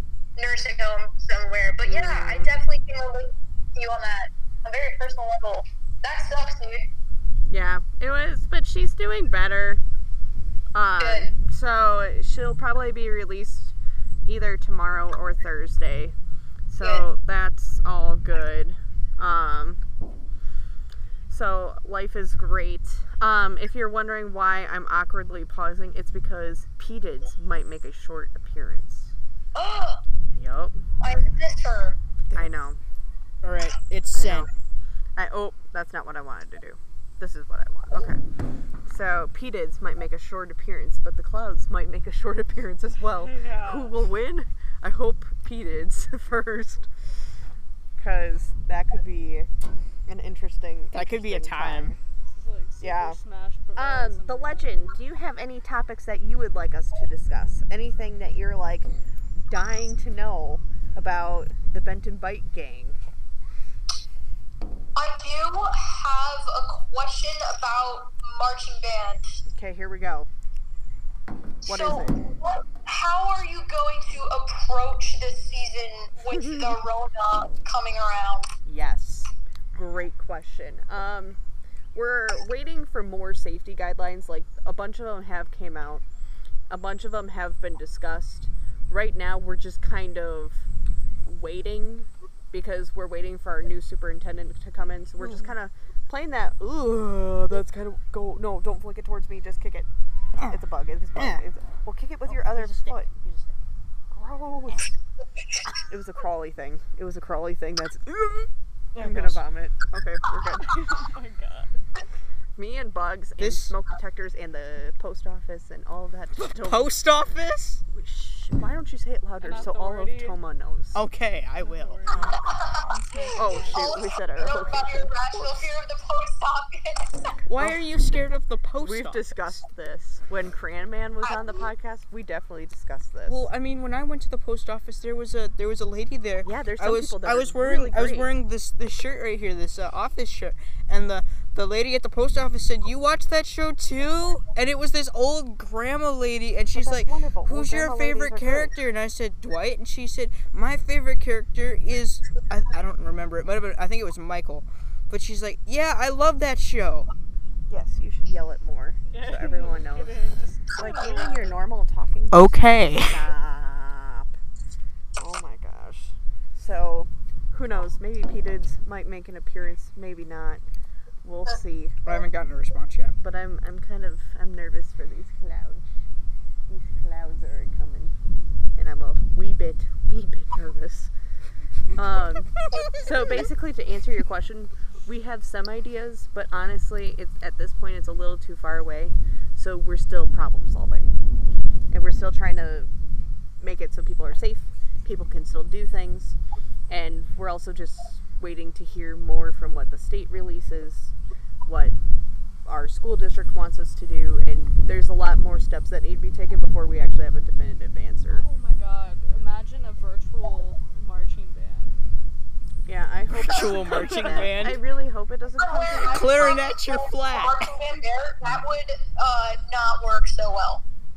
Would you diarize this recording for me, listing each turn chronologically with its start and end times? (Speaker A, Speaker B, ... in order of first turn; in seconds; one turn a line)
Speaker A: 0.3-6.9
Speaker B: 1.8-2.5
Speaker B: 7.5-9.8
Speaker B: 10.7-13.7
Speaker A: 11.0-11.3
Speaker B: 14.2-16.1
Speaker B: 16.7-19.8
Speaker A: 16.8-17.1
Speaker B: 21.3-29.1
Speaker A: 29.5-30.0
Speaker B: 30.3-30.8
Speaker A: 31.0-32.0
Speaker B: 32.3-32.8
Speaker C: 33.4-34.5
Speaker B: 34.1-34.5
Speaker B: 35.1-38.2
Speaker B: 38.8-46.9
Speaker D: 43.0-43.9
Speaker B: 48.0-49.5
Speaker B: 50.1-52.0
Speaker C: 50.9-52.0
Speaker D: 52.1-54.9
Speaker B: 52.8-53.2
Speaker B: 53.8-58.9
Speaker B: 59.5-63.0
Speaker A: 65.0-69.2
Speaker B: 69.5-70.3
Speaker A: 71.6-78.5
Speaker B: 71.7-72.2
Speaker B: 76.3-76.7
Speaker B: 78.6-81.4
Speaker B: 81.9-86.0
Speaker B: 86.7-90.7
Speaker B: 91.2-99.9
Speaker C: 95.2-95.5
Speaker C: 100.4-100.6
Speaker B: 100.5-103.1
Speaker C: 101.2-101.4
Speaker C: 102.2-103.6
Speaker B: 104.1-104.9
Speaker B: 105.7-110.8
Speaker C: 108.9-109.4
Speaker D: 110.7-111.7
Speaker B: 112.6-116.9
Speaker C: 113.4-113.7
Speaker C: 116.4-117.8
Speaker B: 117.9-121.0
Speaker D: 119.4-120.4
Speaker C: 120.9-122.4
Speaker D: 121.6-124.0
Speaker A: 122.5-122.8
Speaker B: 123.3-125.6
Speaker A: 123.4-127.3
Speaker C: 127.5-129.6
Speaker B: 128.8-133.4
Speaker C: 133.3-157.1
Speaker B: 136.4-138.3
Speaker B: 146.7-148.7
Speaker B: 157.7-160.2
Speaker D: 159.1-161.6
Speaker B: 160.7-164.3
Speaker C: 162.3-163.2
Speaker B: 165.2-170.6
Speaker B: 171.2-172.1
Speaker C: 172.1-173.2
Speaker B: 173.2-175.9
Speaker B: 176.7-178.1
Speaker B: 178.7-181.1
Speaker B: 181.9-191.2
Speaker B: 191.9-192.9
Speaker B: 193.6-196.3
Speaker B: 196.9-201.1
Speaker B: 201.6-201.9
Speaker B: 202.6-208.4
Speaker D: 208.3-212.0
Speaker B: 212.8-216.7
Speaker C: 213.4-214.8
Speaker D: 213.5-214.5
Speaker A: 215.6-220.8
Speaker C: 216.0-217.7